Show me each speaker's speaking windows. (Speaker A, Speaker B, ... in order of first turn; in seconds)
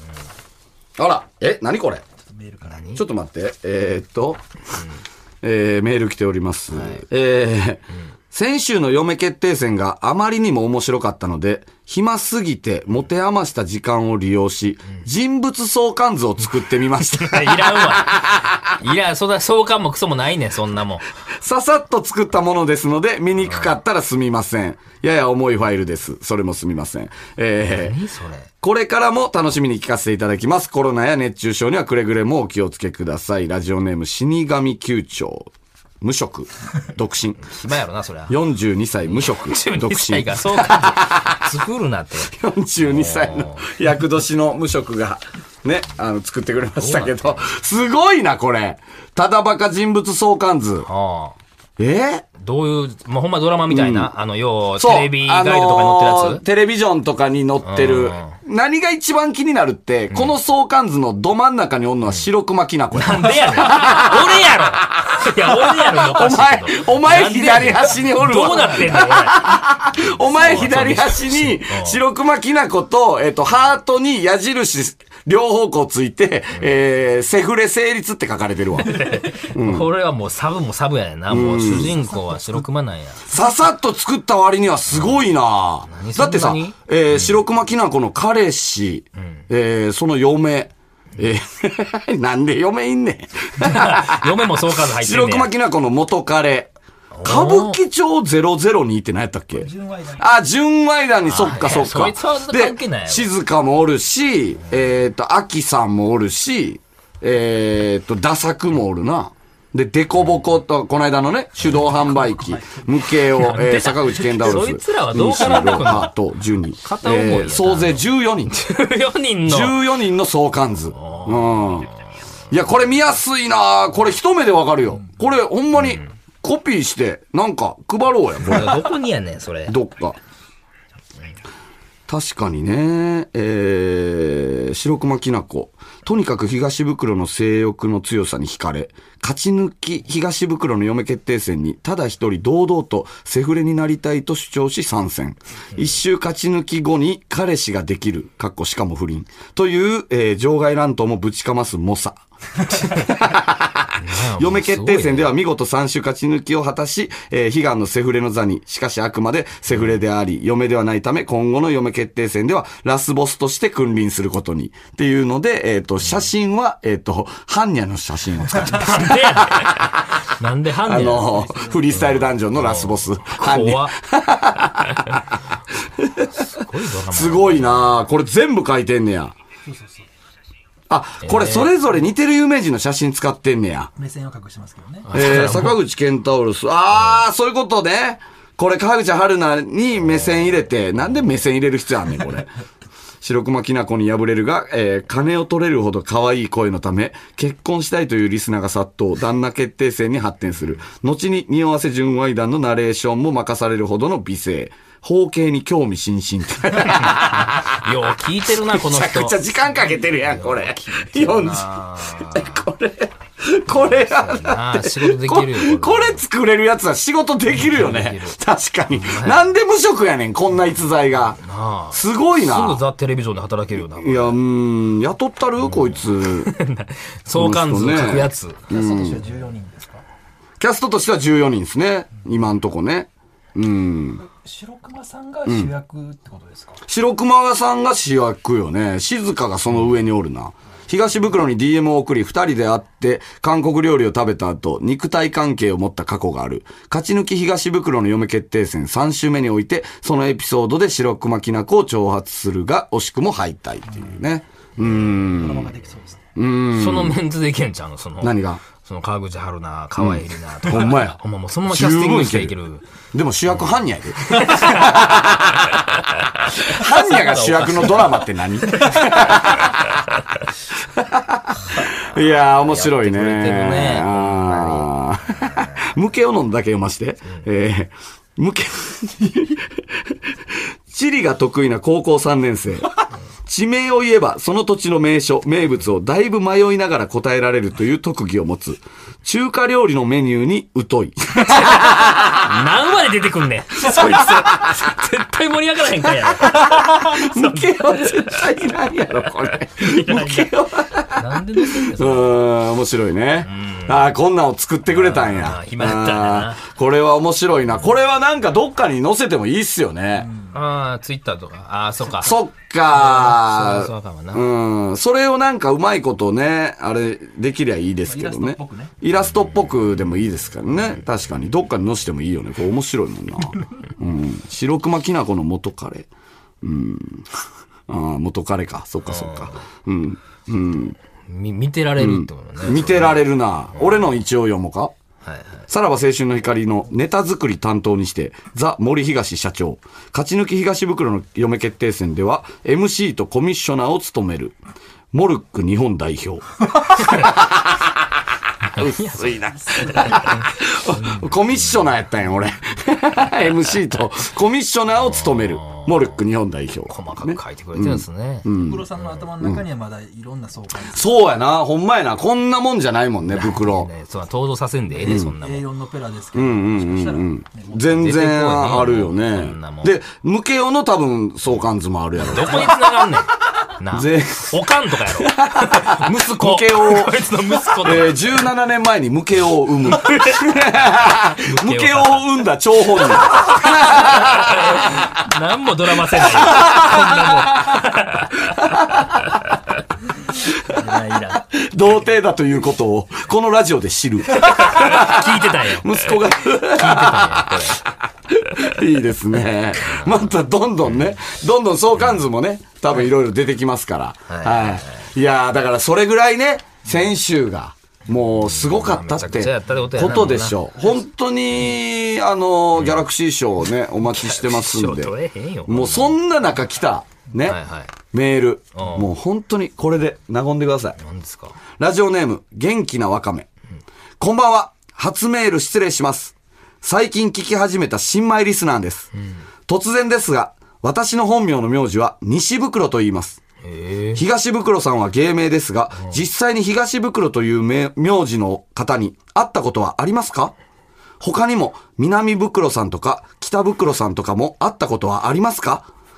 Speaker A: 1.0-2.0, 2.9-4.4, 5.4-18.7, 21.4-28.0, 28.6-35.5, 36.0-37.5, 38.3-41.5, 42.2-50.9, 51.8-52.2, 53.7-54.1, 54.8-79.9, 81.3-82.0, 83.2-96.7, 97.2-118.6, 119.5-121.9, 122.5-128.9, 129.7-130.2, 132.1-152.2, 152.7-169.7, 170.8-175.2, 176.0-176.4, 177.1-179.3, 180.9-183.9, 185.1-192.5, 193.2-207.9, 208.5-221.4, 221.9-222.8, 223.8-226.5, 227.3-229.2, 230.6-234.2, 235.4-235.7, 236.8-255.7, 256.3-257.2, 258.2-258.6, 260.0-262.5, 263.1-266.0, 266.6-270.0, 270.9-279.8, 280.9-292.4, 293.8-295.0, 296.0-310.3, 312.2-326.1, 326.6-327.3, 327.9-330.9, 332.0-334.9, 335.7-344.6, 345.1-347.9, 348.8-359.6, 360.8-363.9, 365.0-365.4, 366.3-372.9, 373.9-377.2, 377.8-385.1, 386.0-387.9, 388.6-389.3, 390.4-415.1, 415.7-417.6, 418.1-421.0, 421.8-423.5, 424.2-429.1, 429.7-433.4, 434.1-440.5, 441.2-445.9
Speaker B: 2.2-2.8, 99.5-100.2, 112.3-112.8, 171.3-172.1, 179.7-180.1, 184.0-185.1, 228.7-230.0, 234.2-236.8, 253.9-254.2, 255.3-256.3, 310.2-310.6, 312.0-312.3, 318.1-318.9, 349.9-350.1, 358.6-361.1, 365.1-367.9
Speaker C: 2.6-3.0, 6.7-7.0, 17.2-18.1, 18.8-21.0, 23.4-23.7, 27.6-28.5, 37.4-38.4, 39.0-43.7, 46.8-47.6, 50.8-51.4, 52.4-56.4, 57.6-58.3, 60.1-60.4, 62.9-69.4, 70.0-72.0, 78.8-83.2, 84.9-85.3, 85.9-87.4, 93.6-95.5, 97.1-97.8, 101.2-103.3, 111.6-111.9, 113.3-116.1, 116.8-119.8, 120.9-122.0, 128.4-129.8, 154.0-155.3, 166.0-166.3, 168.7-171.4, 171.9-173.9, 176.3-178.0, 181.2-181.7, 185.1-185.8, 186.9-187.2, 206.8-209.4, 210.2-212.7, 213.7-216.2, 217.4-218.4, 218.9-219.5, 221.3-224.4, 225.6-228.7, 256.7-262.9, 264.3-265.2, 266.5-269.4, 271.7-275.8, 291.4-298.5, 299.3-302.4, 303.4-304.1, 304.9-306.6, 310.5-312.4, 312.9-314.4, 329.1-329.6, 331.3-334.0, 335.2-335.6, 347.0-347.3, 348.7-351.8, 355.0-356.2, 356.9-359.2, 363.3-365.7, 367.8-369.9, 372.2-378.2, 381.4-389.8, 390.7-391.4, 394.3-397.8, 399.8-400.2, 400.9-401.1, 401.9-402.2, 404.3-405.0, 408.4-410.6, 412.8-413.0, 414.0-416.1, 417.4-417.9, 418.7-419.1, 421.0-421.6, 433.6-434.2